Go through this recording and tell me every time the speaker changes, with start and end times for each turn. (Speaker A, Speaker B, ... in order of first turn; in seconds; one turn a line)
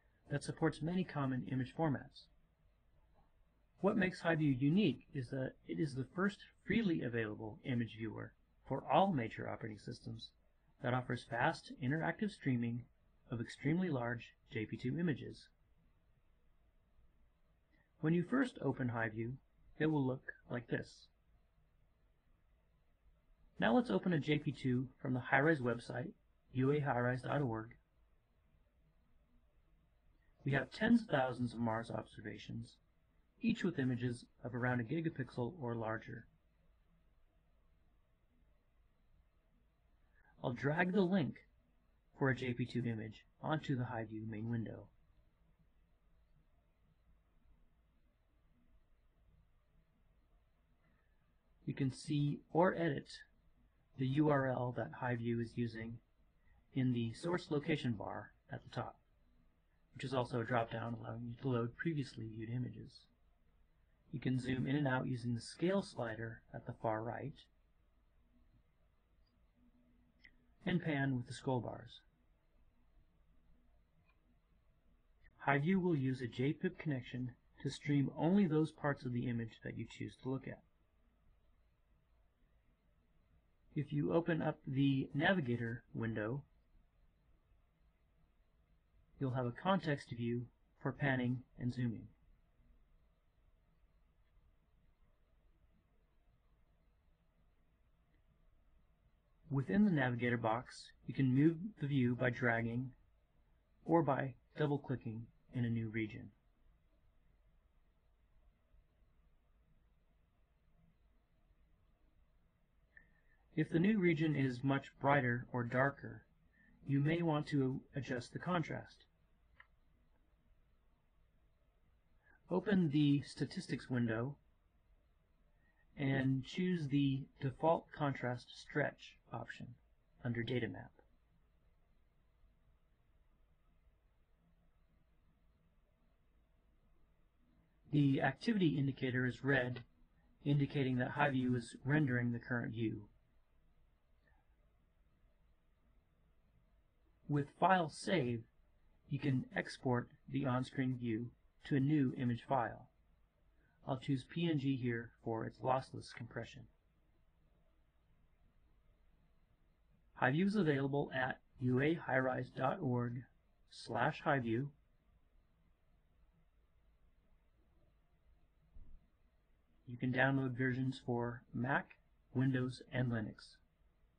Speaker A: 0.3-2.3
Speaker A: 3.8-15.5
Speaker A: 18.0-21.1
Speaker A: 23.6-27.8
Speaker A: 30.4-32.8
Speaker A: 33.4-36.3
Speaker A: 40.4-41.5
Speaker A: 42.1-44.9
Speaker A: 51.6-53.2
Speaker A: 54.0-56.0
Speaker A: 56.7-59.0
Speaker A: 59.9-63.1
Speaker A: 64.1-67.5
Speaker A: 70.6-72.0
Speaker A: 75.4-80.6
Speaker A: 83.7-86.5
Speaker A: 89.2-92.1
Speaker A: 99.5-103.0
Speaker A: 103.8-106.3
Speaker A: 113.5-116.3
Speaker A: 116.8-119.1
Speaker A: 122.5-124.4
Speaker A: 126.0-131.0
Speaker A: 137.9-139.8
Speaker A: 140.4-143.1
Speaker A: 147.3-148.5
Speaker A: 149.1-152.9
Speaker A: 153.8-156.7
Speaker A: 160.2-164.7
Speaker A: 169.9-173.6